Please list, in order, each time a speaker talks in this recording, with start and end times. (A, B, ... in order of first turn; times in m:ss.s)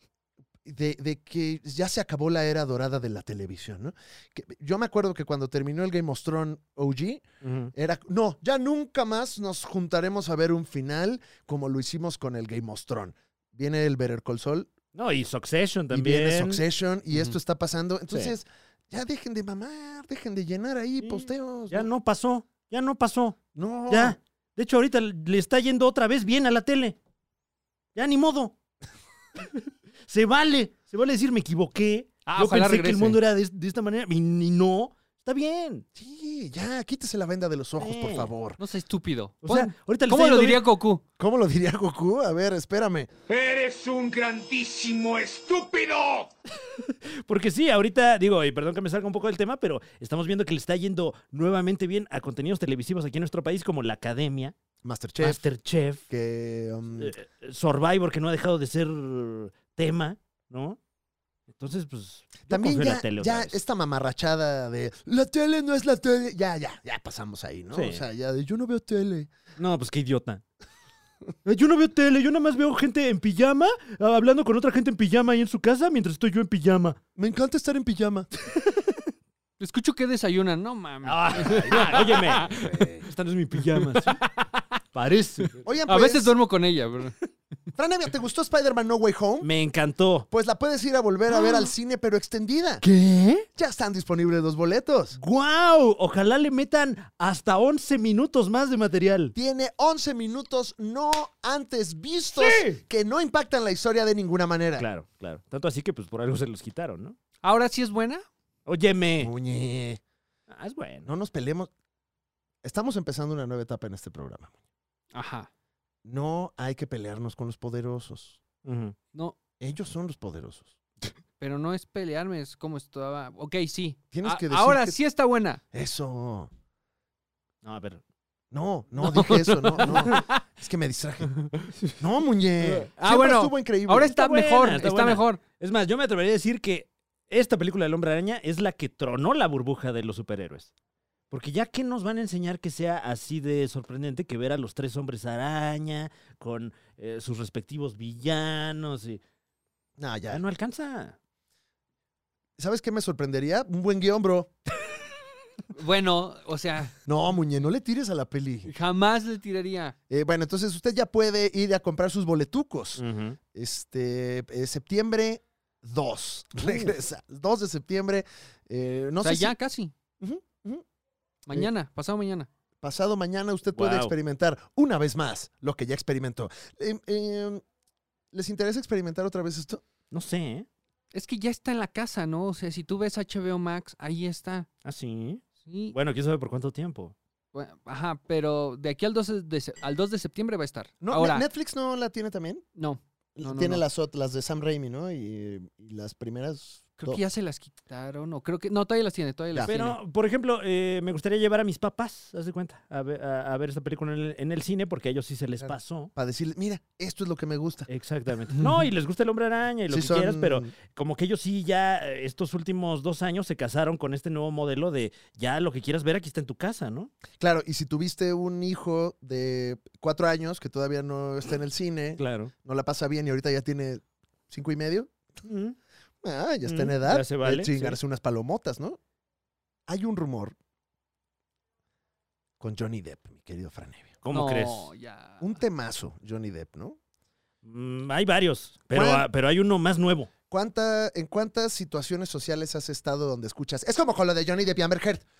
0:00.6-0:14.7 A
0:07.4-0:07.7 B
0:14.9-0:16.6 B
0:15.9-0:21.9 A
0:18.1-0:18.3 B
0:21.0-0:27.0 B
0:23.6-0:24.2 A
0:27.9-0:28.6 B
0:29.4-0:35.8 B
0:32.2-0:33.2 C
0:35.9-0:38.6 A
0:37.8-0:38.3 B
0:38.6-0:41.0 C
0:39.4-0:40.6 B
0:41.2-0:43.1 A
0:43.3-0:46.3 D
0:46.6-0:54.6 B
0:54.8-0:55.4 A
0:55.2-0:56.0 B
0:56.1-0:57.1 A
0:57.0-1:00.8 B
1:01.5-1:03.6 B
1:02.5-1:09.3 A
1:07.7-1:08.0 B
1:09.6-1:10.4 B
1:11.4-1:17.0 B
1:17.2-1:18.3 A
1:18.5-1:19.0 B
1:19.6-1:22.7 C
1:21.0-1:25.6 B
1:21.4-1:23.1 A
1:23.7-1:24.1 C
1:25.6-1:26.3 A
1:25.9-1:27.2 C
1:27.8-1:29.5 A
1:29.4-1:30.3 B
1:30.3-1:32.8 A
1:32.8-1:33.5 B
1:33.6-1:35.2 A
1:35.2-1:39.3 B
1:39.3-1:44.8 A
1:42.3-1:42.8 B
1:44.8-1:47.2 B
1:47.4-1:48.2 C
1:48.6-1:49.3 B
1:49.2-1:50.0 A
1:50.5-1:51.1 B
1:51.0-1:51.7 A
1:52.6-1:54.6 A
1:55.1-1:55.5 C
1:56.0-1:58.4 A
1:58.6-1:59.0 B
1:59.6-2:00.7 A
2:01.4-2:05.6 C
2:04.1-2:05.0 A
2:05.7-2:06.5 A
2:07.6-2:08.0 B
2:08.5-2:11.3 A
2:09.0-2:10.4 C
2:11.4-2:11.7 C
2:12.0-2:14.1 A
2:13.0-2:15.4 C
2:14.1-2:20.7 B
2:21.3-2:29.2 B
2:30.0-2:30.4 A
2:30.3-2:31.2 B
2:32.6-2:34.5 A
2:35.7-2:36.9 C
2:37.0-2:38.7 A
2:38.7-2:40.0 C
2:40.1-2:49.6 A
2:43.0-2:43.4 B
2:46.6-2:46.9 B
2:49.2-2:49.9 C
2:50.2-2:50.8 A
2:51.5-2:52.5 C
2:52.8-2:57.6 A
2:53.7-2:54.1 B
2:58.3-2:59.8 A
3:00.1-3:00.7 B
3:01.1-3:04.7 C
3:04.8-3:07.1 B
3:05.6-3:06.0 C
3:07.5-3:11.4 C
3:11.0-3:12.6 A
3:12.8-3:13.8 C
3:13.4-3:17.2 A
3:17.0-3:20.0 C
3:19.7-3:26.1 B
3:25.6-3:27.9 A
3:27.9-3:37.1 B
3:29.9-3:30.7 A
3:37.4-3:45.1 A
3:42.2-3:42.5 B
3:45.4-3:45.8 B
3:46.2-3:49.0 A
3:46.6-3:48.0 B
3:49.9-3:50.6 A
3:52.6-3:54.2 A
3:54.2-3:54.9 B
3:54.3-3:55.6 C
3:55.4-3:57.0 A
3:57.6-4:00.3 B
3:58.9-3:59.2 A
4:00.5-4:05.2 A